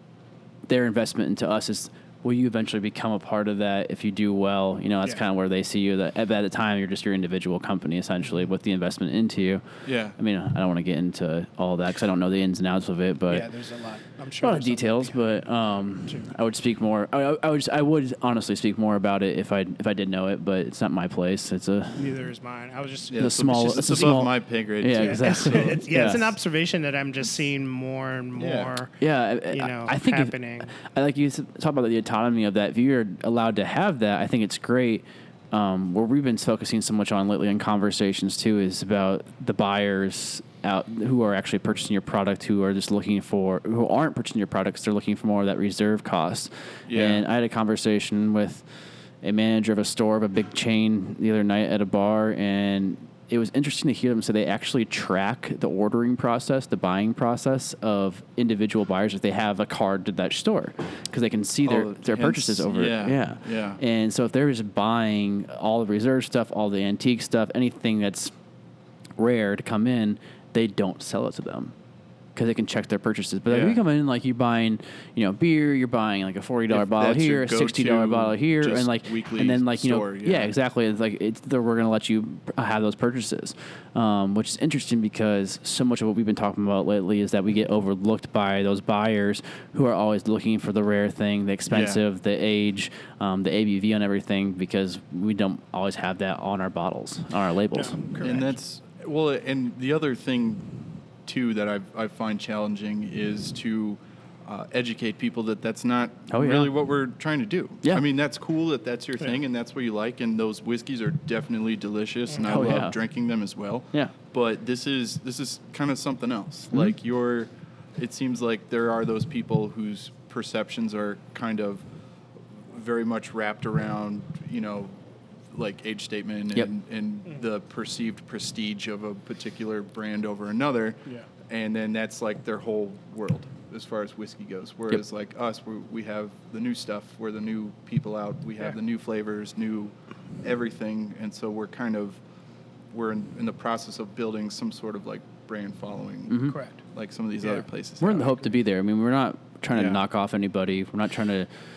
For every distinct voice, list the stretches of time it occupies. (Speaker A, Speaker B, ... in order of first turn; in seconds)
Speaker A: 0.7-9.6, 10.2-13.5, 14.4-22.1, 23.2-26.3, 29.0-48.6, 49.2-68.3, 69.2-71.7, 72.3-98.0, 106.3-106.7, 112.4-113.0, 146.3-146.6, 148.0-151.5
Speaker B: 9.8-10.2, 23.1-25.9, 28.4-28.7, 46.9-47.2, 61.6-63.8, 73.5-73.8, 76.7-80.5, 91.7-92.0, 98.2-100.7, 101.2-121.8, 122.6-124.9, 125.5-142.2, 142.9-148.3, 149.7-150.0
Speaker C: 13.3-16.3, 21.9-24.2, 24.9-29.0, 29.5-30.7, 97.7-98.5, 112.4-112.7, 146.4-146.8